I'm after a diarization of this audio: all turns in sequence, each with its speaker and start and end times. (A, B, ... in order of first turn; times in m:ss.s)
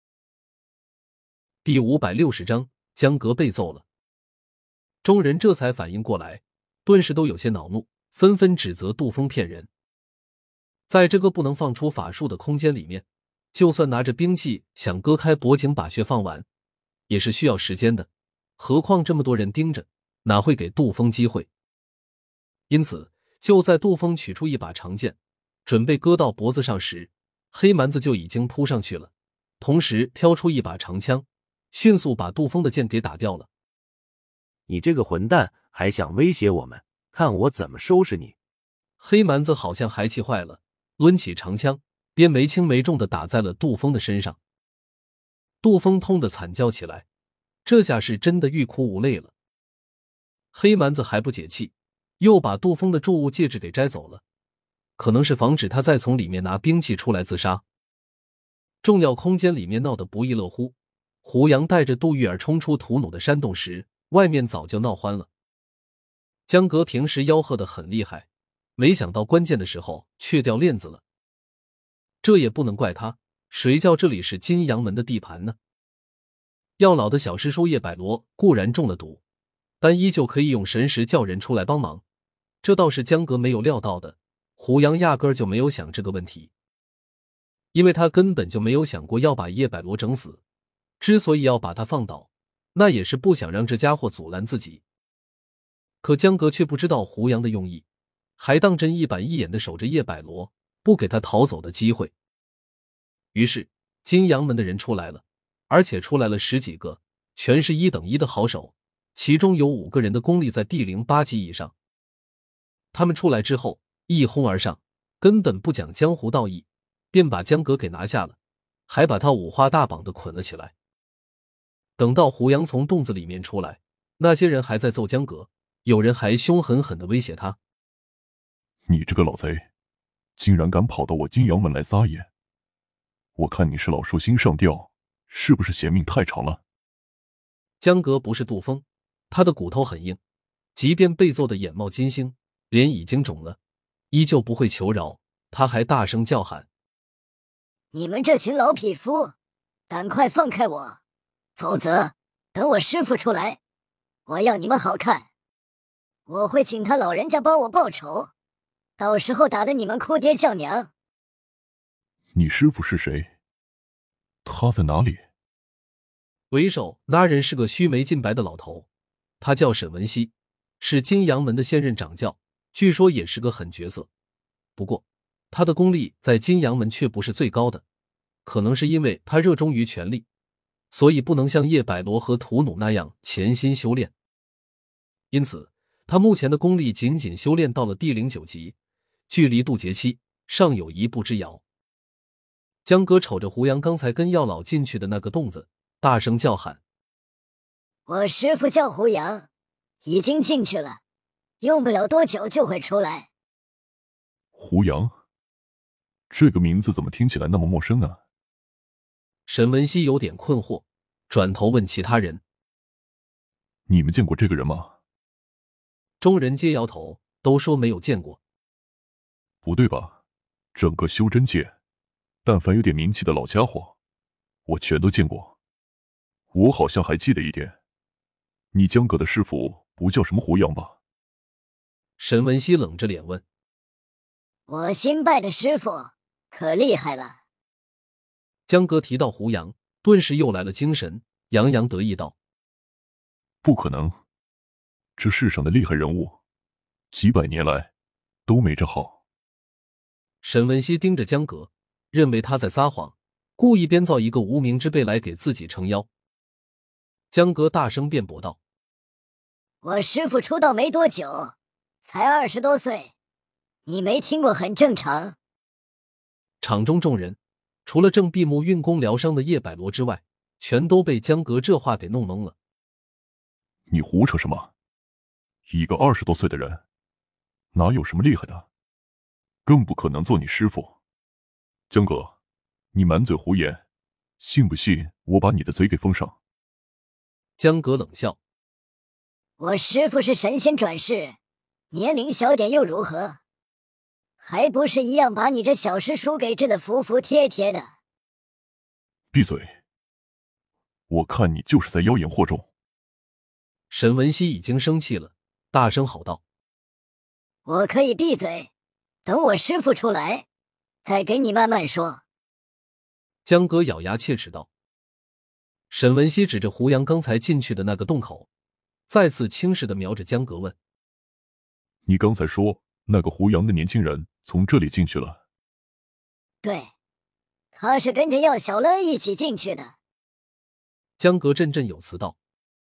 0:01.6-0:03.8 A
0:05.0-0:09.7 A
0:10.9-0:16.4 A
0:17.1-0:18.1 A
0:18.6-0:21.5 A
0:22.7-0:33.5 A
0:34.7-0:38.4 B
0:39.0-0:44.4 A
0:45.6-0:47.0 A
0:47.6-0:49.3 A
0:50.5-0:54.2 A
0:55.0-0:57.6 A
0:58.8-1:05.3 A
1:06.5-1:11.0 A
1:12.2-1:15.6 A
1:16.8-1:19.2 A
1:19.8-1:22.0 A
1:22.6-1:26.5 A
1:27.7-1:30.4 A
1:31.0-1:34.8 A
1:36.0-1:37.8 A
1:38.4-1:42.1 A
1:43.3-1:51.7 A
1:52.9-2:00.7 A
2:02.0-2:07.6 A
2:08.9-2:09.7 C
2:10.4-2:12.3 C
2:13.4-2:16.6 C
2:17.8-2:20.2 A
2:20.8-2:23.6 A
2:24.1-2:26.7 A
2:27.9-2:29.3 D
2:29.9-2:31.0 D
2:31.6-2:33.6 D
2:34.3-2:35.3 D
2:36.3-2:38.3 D
2:39.0-2:40.9 D
2:42.3-2:43.3 C
2:44.4-2:45.3 C
2:46.5-2:48.9 A
2:49.4-2:54.1 A
2:54.8-2:57.8 A
2:58.4-3:00.2 A
3:00.9-3:04.1 A
3:05.3-3:08.8 A
3:09.3-3:11.6 A
3:12.8-3:16.8 A
3:18.1-3:19.5 D
3:20.0-3:21.0 D
3:21.6-3:23.3 D
3:24.5-3:25.2 C
3:26.3-3:28.2 C
3:29.5-3:32.4 A
3:33.9-3:34.9 C
3:36.2-3:38.4 A
3:39.6-3:40.2 C
3:40.8-3:41.7 C
3:42.4-3:44.0 C
3:44.7-3:45.5 C
3:46.5-3:47.8 C
3:48.7-3:51.0 C
3:52.2-3:53.4 A
3:54.7-3:57.4 D
3:58.7-4:02.4 A
4:03.6-4:04.2 C
4:05.2-4:06.4 C
4:07.1-4:07.9 C
4:08.5-4:09.2 C
4:10.4-4:16.1 A
4:17.3-4:18.6 A
4:19.8-4:21.5 D
4:22.0-4:23.1 D
4:23.9-4:25.4 D
4:26.6-4:32.6 A
4:33.9-4:34.7 C
4:35.7-4:36.8 C
4:37.7-4:38.7 C
4:39.7-4:41.0 C
4:41.9-4:42.4 C
4:42.9-4:43.8 C
4:44.4-4:46.4 C
4:47.6-4:48.4 A
4:49.6-4:51.4 D
4:51.9-4:53.4 D
4:54.4-4:57.9 D
4:59.3-4:59.8 C
5:01.1-5:02.7 C
5:03.9-5:06.4 A
5:07.7-5:08.7 D
5:09.3-5:10.5 D
5:11.0-5:12.2 D
5:13.4-5:14.7 A
5:15.9-5:18.5 A
5:19.1-5:20.8 A
5:22.1-5:25.4 C
5:26.6-5:26.9 D
5:27.7-5:29.9 D
5:31.2-5:32.4 A